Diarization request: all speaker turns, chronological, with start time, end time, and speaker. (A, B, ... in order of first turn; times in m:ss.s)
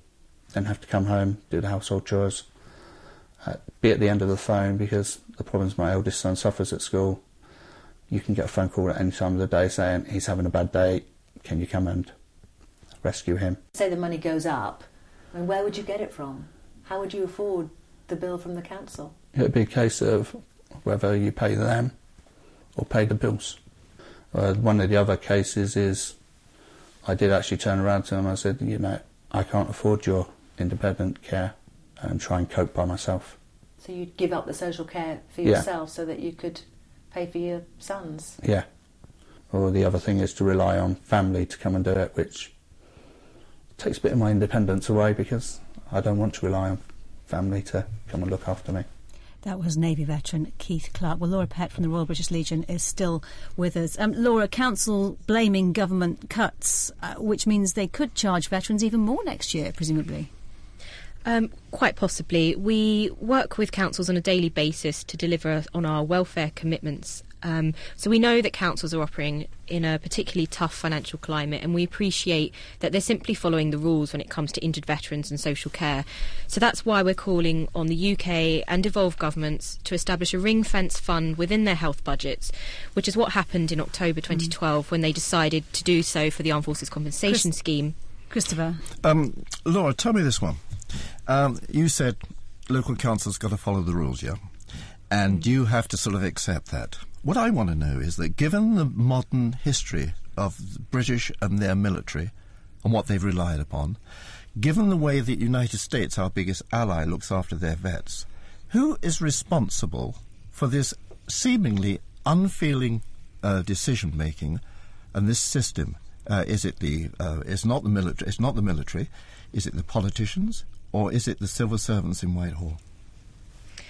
0:00.5-0:02.5 A
0:03.4-0:07.2 A
0:08.1-0:12.1 A
0:13.0-0:13.6 A
0:13.7-0:19.2 B
0:19.3-0:21.9 A
0:22.8-0:23.6 A
0:24.3-0:26.2 A
0:27.0-0:33.4 A
0:33.8-0:38.4 B
0:38.4-0:38.6 A
0:39.5-0:42.5 A
0:43.8-0:48.8 A
0:49.4-1:00.3 C
1:01.2-1:27.9 D
1:28.3-1:28.8 C
1:29.0-1:30.6 E
1:31.2-1:34.4 E
1:35.1-1:44.0 E
1:44.6-1:54.6 E
1:55.1-2:02.8 E